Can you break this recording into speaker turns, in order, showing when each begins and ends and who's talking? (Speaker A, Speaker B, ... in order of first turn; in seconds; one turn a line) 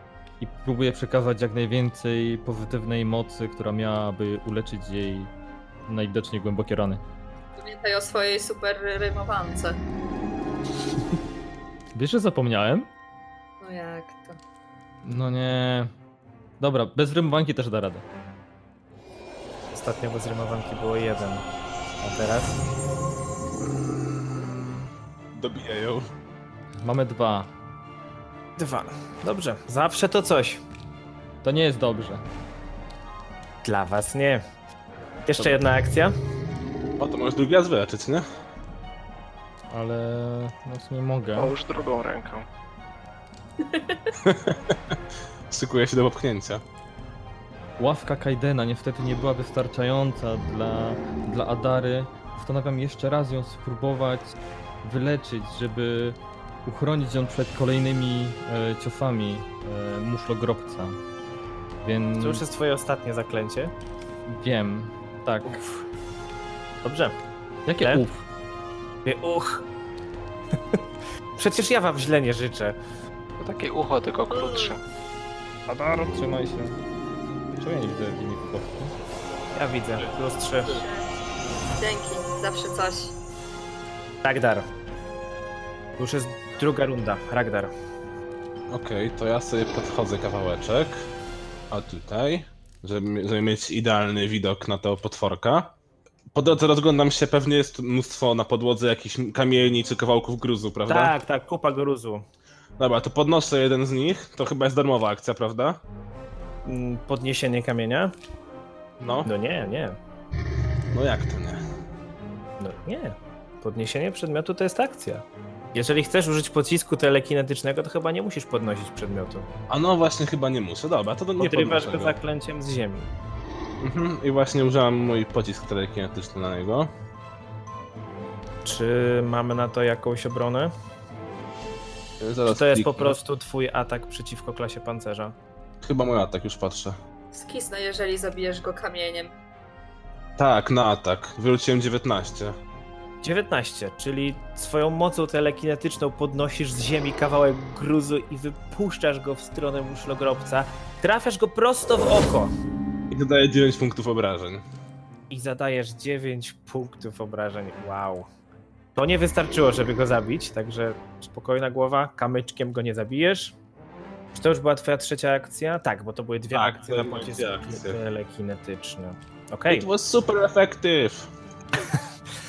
Speaker A: 0.4-5.3
Speaker A: 5.9-7.0
Speaker B: 7.6-9.8
Speaker A: 11.9-12.9
Speaker B: 13.6-14.4
Speaker A: 15.0-15.9
Speaker A: 16.6-18.0
Speaker C: 19.7-21.4
Speaker C: 22.0-22.6
Speaker D: 25.3-26.0
Speaker A: 26.8-27.5
Speaker C: 28.6-30.6
Speaker A: 31.4-32.2
Speaker C: 33.6-34.4
Speaker C: 35.2-36.1
Speaker D: 37.0-38.2
Speaker A: 39.7-41.5
Speaker E: 41.4-42.5
Speaker B: 43.6-44.1
Speaker D: 44.2-45.0
Speaker D: 45.5-46.6
Speaker A: 47.8-61.0
Speaker A: 61.8-62.4
Speaker C: 62.2-63.7
Speaker A: 64.3-65.6
Speaker C: 65.4-65.8
Speaker C: 66.8-67.2
Speaker A: 67.7-68.2
Speaker C: 69.0-69.7
Speaker C: 70.6-70.8
Speaker C: 71.4-72.8
Speaker E: 73.4-74.8
Speaker B: 74.3-74.8
Speaker A: 75.7-76.8
Speaker A: 77.6-78.9
Speaker C: 79.5-80.8
Speaker B: 80.6-81.1
Speaker B: 81.7-83.1
Speaker C: 84.2-84.7
Speaker C: 86.0-87.7
Speaker D: 88.7-91.1
Speaker D: 91.7-95.8
Speaker D: 96.3-101.1
Speaker C: 100.9-102.2
Speaker D: 102.8-105.8
Speaker C: 106.6-108.1
Speaker D: 109.0-109.3
Speaker C: 109.2-110.0
Speaker D: 110.9-111.6
Speaker C: 112.6-119.5
Speaker D: 119.7-122.2
Speaker C: 121.4-123.1
Speaker D: 123.8-126.9
Speaker C: 128.6-130.7
Speaker D: 132.2-133.2
Speaker C: 132.5-135.4
Speaker D: 135.8-137.0
Speaker B: 137.3-139.3
Speaker D: 140.4-142.6
Speaker C: 143.2-152.5
Speaker D: 153.1-154.6
Speaker C: 155.3-158.3
Speaker C: 158.9-163.6
Speaker C: 164.3-169.9
Speaker D: 166.5-168.0
Speaker D: 169.7-171.3
Speaker C: 171.8-172.0